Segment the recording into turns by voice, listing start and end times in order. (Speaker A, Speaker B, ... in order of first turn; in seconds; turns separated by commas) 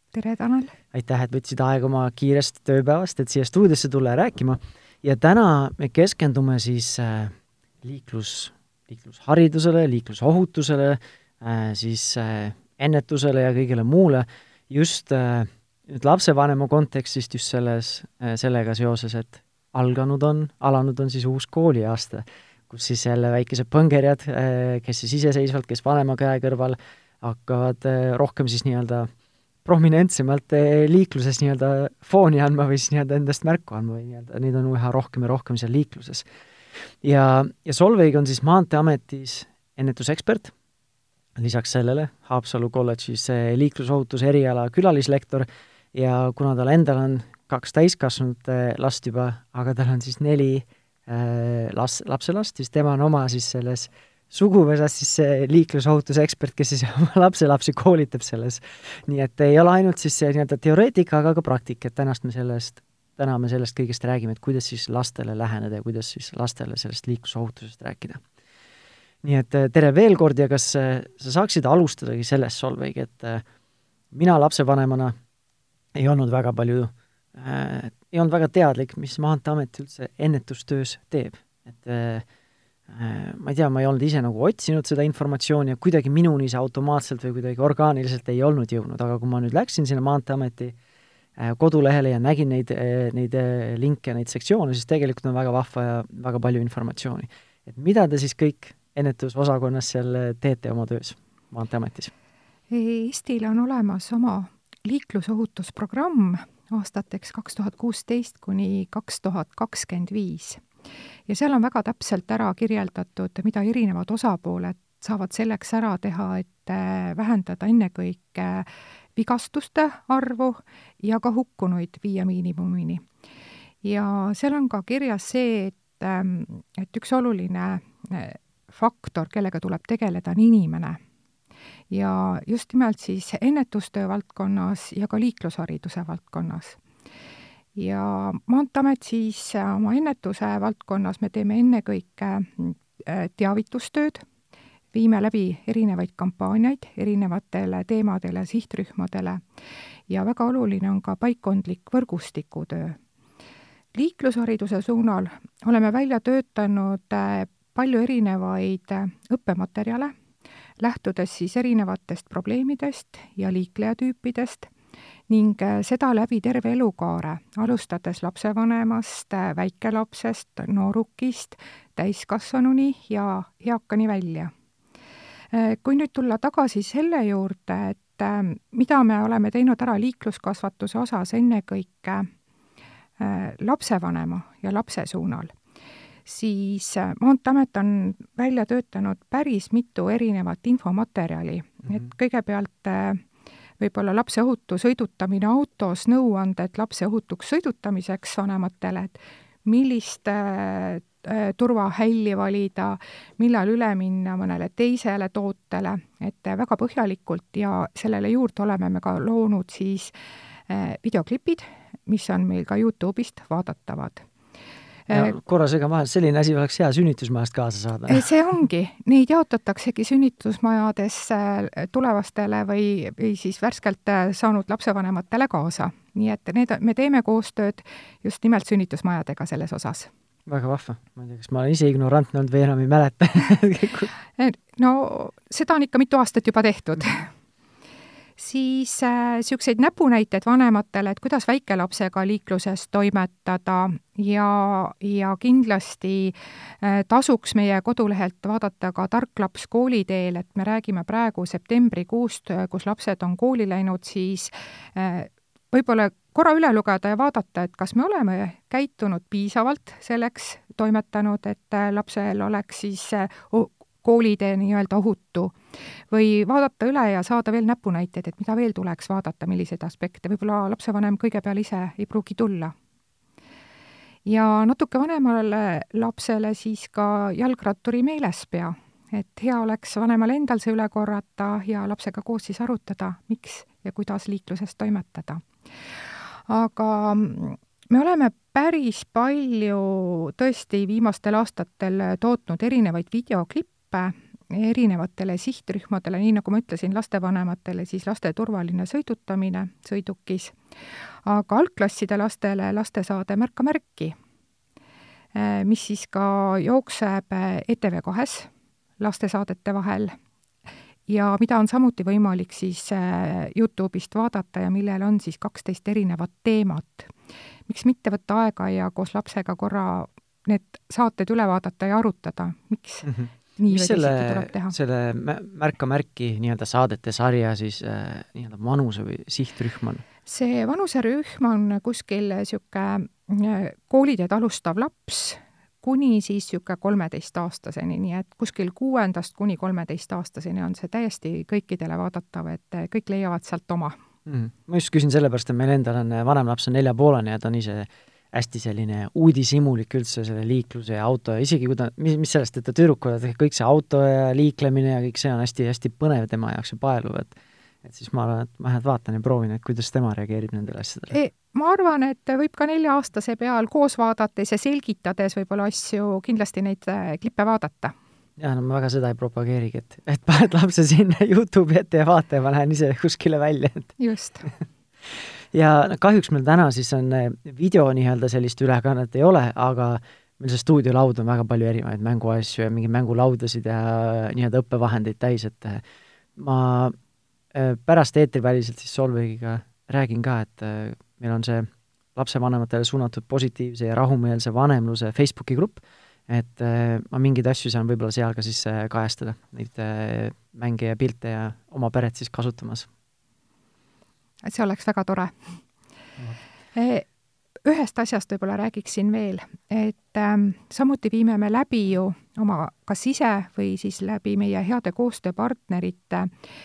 Speaker A: 0.1-0.8, Speaker B: 0.9-29.1, Speaker B: 29.6-36.2, Speaker B: 37.0-40.5, Speaker B: 41.4-68.2, Speaker B: 69.2-73.4, Speaker B: 74.1-75.1, Speaker B: 75.9-82.2, Speaker B: 82.9-90.8, Speaker B: 91.4-102.1, Speaker A: 102.7-110.6, Speaker A: 111.3-123.1, Speaker A: 123.8-131.0, Speaker A: 131.9-136.8, Speaker A: 137.8-144.2, Speaker A: 144.9-149.4, Speaker A: 150.1-153.0, Speaker A: 153.9-160.1, Speaker A: 160.8-164.7, Speaker A: 165.3-174.5, Speaker A: 175.5-182.3, Speaker A: 183.2-185.5, Speaker A: 186.2-193.2, Speaker A: 193.8-210.1, Speaker A: 210.7-214.3, Speaker A: 215.1-215.3, Speaker B: 215.1-218.3, Speaker A: 218.1-230.1, Speaker B: 230.4-234.1, Speaker A: 234.4-237.3, Speaker A: 238.4-265.6, Speaker A: 266.1-272.7, Speaker A: 274.2-285.4, Speaker A: 286.5-300.6, Speaker A: 301.2-304.1, Speaker A: 305.3-308.5, Speaker A: 309.0-310.1, Speaker A: 311.1-317.1, Speaker A: 317.7-324.8, Speaker B: 323.0-330.0, Speaker A: 330.2-344.0, Speaker B: 344.2-361.1, Speaker A: 361.1-367.9, Speaker B: 368.4-373.9, Speaker A: 374.0-374.5, Speaker B: 375.1-385.8, Speaker B: 386.4-386.9, Speaker B: 387.5-402.9, Speaker A: 404.4-405.6, Speaker A: 406.8-407.1, Speaker A: 407.6-416.3